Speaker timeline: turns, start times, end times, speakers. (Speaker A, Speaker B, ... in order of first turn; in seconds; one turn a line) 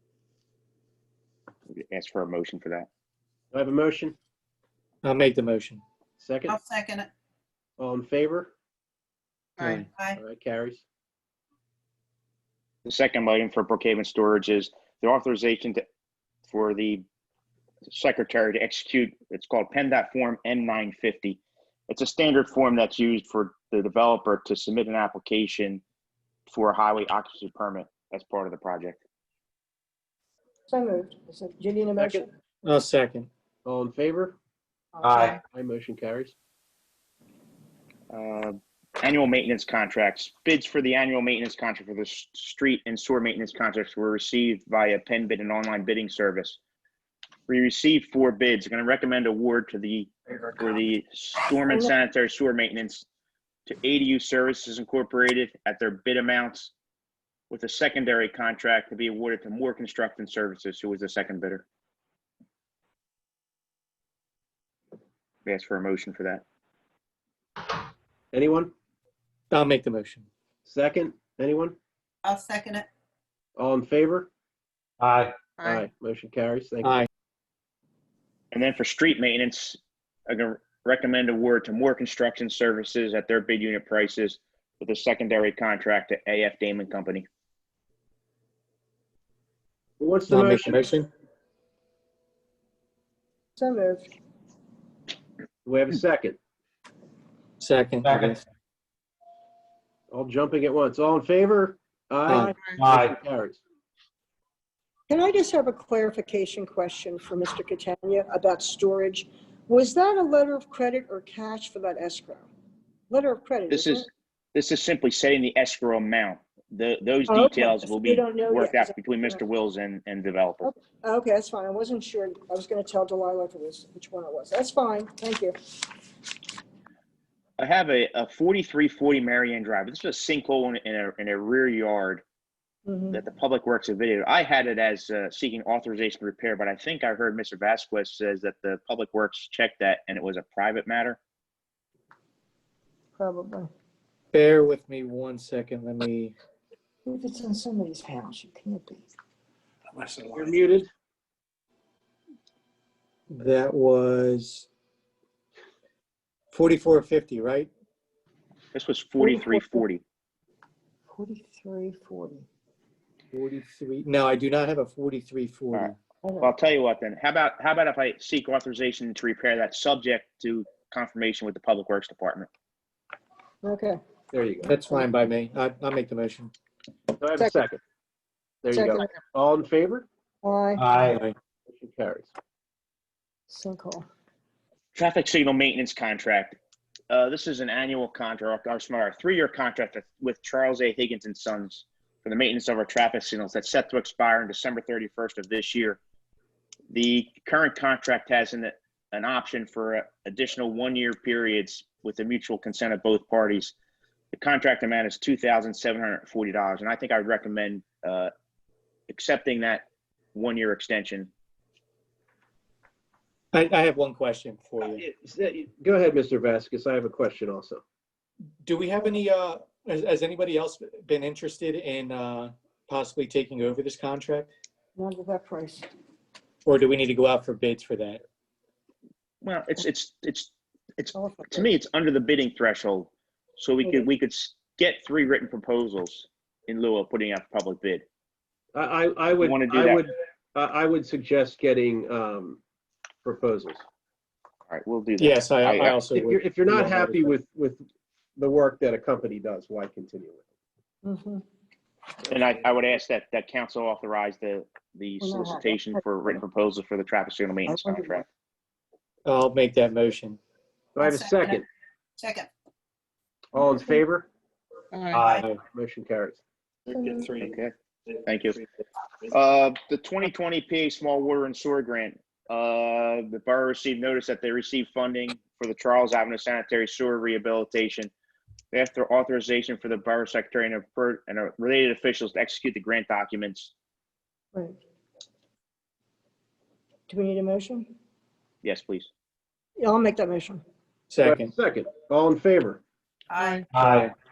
Speaker A: 1.8-2.9
Speaker B: 3.5-4.2
Speaker C: 5.0-5.8
Speaker B: 6.2-6.6
Speaker D: 6.5-7.1
Speaker B: 7.8-8.5
Speaker D: 9.6-10.2
Speaker C: 9.6-9.9
Speaker B: 10.1-10.8
Speaker A: 12.8-15.8
Speaker A: 16.4-17.1
Speaker A: 17.9-25.8
Speaker A: 26.5-29.0
Speaker E: 30.7-32.3
Speaker B: 32.0-32.2
Speaker C: 32.6-33.3
Speaker B: 33.6-34.4
Speaker F: 35.0-35.4
Speaker D: 35.0-35.4
Speaker B: 35.4-36.4
Speaker A: 38.1-46.6
Speaker A: 47.5-53.0
Speaker A: 53.7-56.7
Speaker A: 57.5-61.6
Speaker A: 65.5-66.4
Speaker B: 68.3-68.7
Speaker C: 69.5-70.3
Speaker B: 70.7-71.8
Speaker D: 72.2-72.8
Speaker B: 73.6-74.3
Speaker F: 75.0-75.3
Speaker D: 75.6-75.8
Speaker B: 75.6-77.0
Speaker A: 78.5-87.2
Speaker B: 90.0-90.9
Speaker C: 90.3-91.1
Speaker E: 93.6-94.1
Speaker B: 95.6-96.4
Speaker C: 97.6-98.4
Speaker F: 98.0-98.4
Speaker B: 100.1-103.6
Speaker C: 102.3-102.5
Speaker F: 102.8-103.2
Speaker E: 105.1-112.5
Speaker E: 113.1-114.1
Speaker A: 113.7-120.7
Speaker E: 117.3-118.9
Speaker E: 120.6-125.5
Speaker A: 127.6-132.2
Speaker E: 132.8-133.2
Speaker A: 133.1-141.2
Speaker E: 143.2-143.7
Speaker C: 144.3-146.3
Speaker E: 147.1-149.1
Speaker B: 150.3-150.9
Speaker C: 153.3-154.7
Speaker C: 156.5-157.7
Speaker A: 158.7-160.0
Speaker E: 159.4-159.6
Speaker E: 161.1-162.4
Speaker C: 163.3-166.0
Speaker A: 165.7-172.5
Speaker E: 166.2-166.5
Speaker E: 173.6-174.0
Speaker B: 174.3-174.8
Speaker C: 174.7-176.5
Speaker B: 177.2-177.8
Speaker B: 178.6-180.1
Speaker E: 178.7-179.1
Speaker E: 180.4-180.8
Speaker C: 180.8-181.3
Speaker B: 181.7-182.3
Speaker E: 183.5-184.1
Speaker A: 184.9-186.6
Speaker A: 187.1-196.0
Speaker A: 196.9-203.7
Speaker A: 204.3-208.3
Speaker A: 209.1-211.3
Speaker C: 213.5-215.0
Speaker B: 214.8-217.8
Speaker C: 218.6-224.5
Speaker E: 224.9-225.9
Speaker C: 226.7-228.2
Speaker A: 229.4-238.0
Speaker E: 231.1-231.7
Speaker B: 238.7-242.6
Speaker A: 239.3-240.1
Speaker B: 243.2-243.8
Speaker A: 244.7-246.0
Speaker C: 245.2-247.3
Speaker B: 246.1-247.8
Speaker B: 248.3-250.4
Speaker E: 251.0-251.4
Speaker A: 252.3-258.2
Speaker E: 255.2-255.7
Speaker C: 259.2-260.4
Speaker B: 260.9-261.6
Speaker D: 261.0-261.6
Speaker D: 262.2-262.5
Speaker B: 263.5-264.3
Speaker D: 264.9-265.4
Speaker B: 265.1-266.4
Speaker C: 265.3-265.6
Speaker A: 266.9-267.7
Speaker E: 266.9-267.3
Speaker A: 268.2-268.6
Speaker A: 269.3-278.1
Speaker A: 278.7-283.7
Speaker E: 287.1-287.9
Speaker A: 288.6-289.1
Speaker E: 289.8-290.6
Speaker C: 291.1-291.5
Speaker B: 291.2-292.8
Speaker D: 293.3-293.6
Speaker F: 293.7-294.1
Speaker C: 293.7-294.1